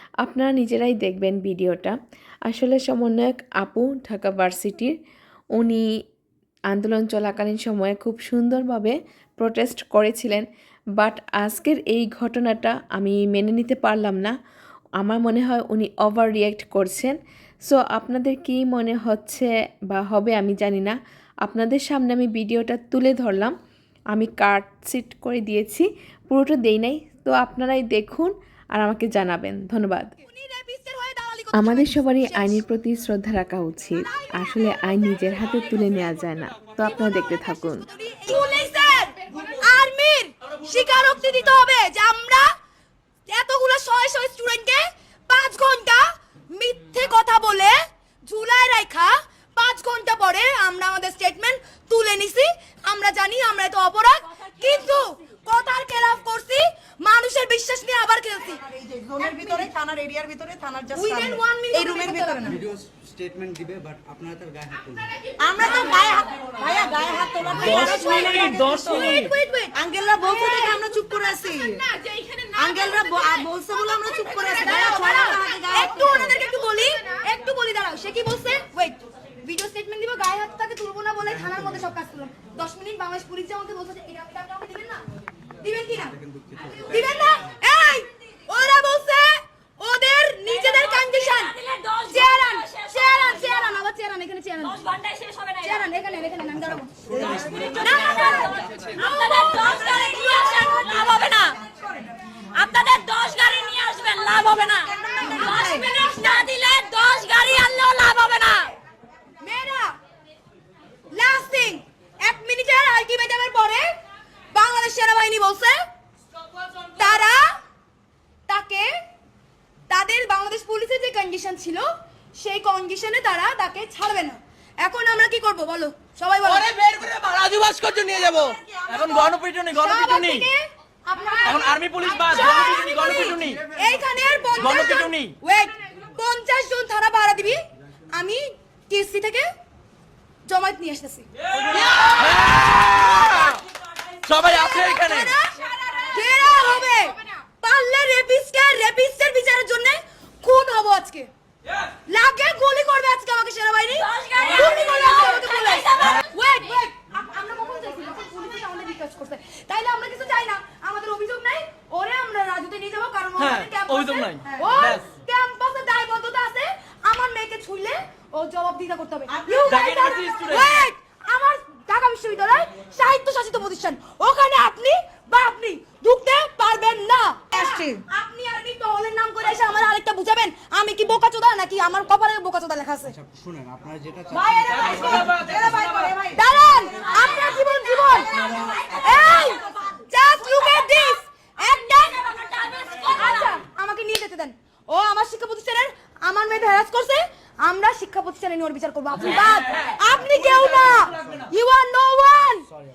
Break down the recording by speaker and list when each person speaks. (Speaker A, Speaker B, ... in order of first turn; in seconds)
Speaker A: 0.2-1.9, 2.5-5.0, 5.6-5.9, 6.7-10.4, 11.0-14.3, 15.0-23.5, 24.1-30.1, 31.5-37.9
Speaker B: 30.2-32.6, 37.9-42.5, 43.3-58.5, 61.0-62.5, 68.8-69.7, 74.5-85.0, 85.6-86.2, 86.9-91.5, 92.1-94.7, 95.7-96.9, 97.8-98.4, 109.4-109.9, 111.1-113.9, 114.5-115.8, 117.0-117.6, 118.5-118.9, 119.9-126.7, 129.8-131.4, 132.3-133.1, 133.8-139.5, 140.5-142.0, 146.2-151.3, 152.1-163.4, 164.1-169.7, 170.5-183.1, 186.4-188.2, 189.1-189.4, 190.1-192.1, 193.2-202.7
Speaker C: 40.5-41.5, 67.6-69.3, 126.4-130.5, 131.4-133.8, 134.6-135.4, 141.5-143.6, 144.2-145.4, 163.4-165.1, 169.7-170.8, 184.7-186.1, 199.3-201.5
Speaker D: 54.3-55.2, 67.8-68.5, 90.5-93.8, 94.6-95.9, 97.1-101.6, 102.5-108.7, 145.4-146.9, 153.9-156.3, 186.9-193.6
Speaker E: 58.5-62.6, 65.4-71.9, 72.5-76.4, 100.4-100.7, 104.9-105.9, 128.1-129.3, 131.2-131.5, 132.4-132.9, 169.3-170.5, 177.4-178.0, 184.3-186.4, 187.0-189.7
Speaker F: 62.5-65.1, 86.2-87.1, 97.0-98.0, 183.1-185.2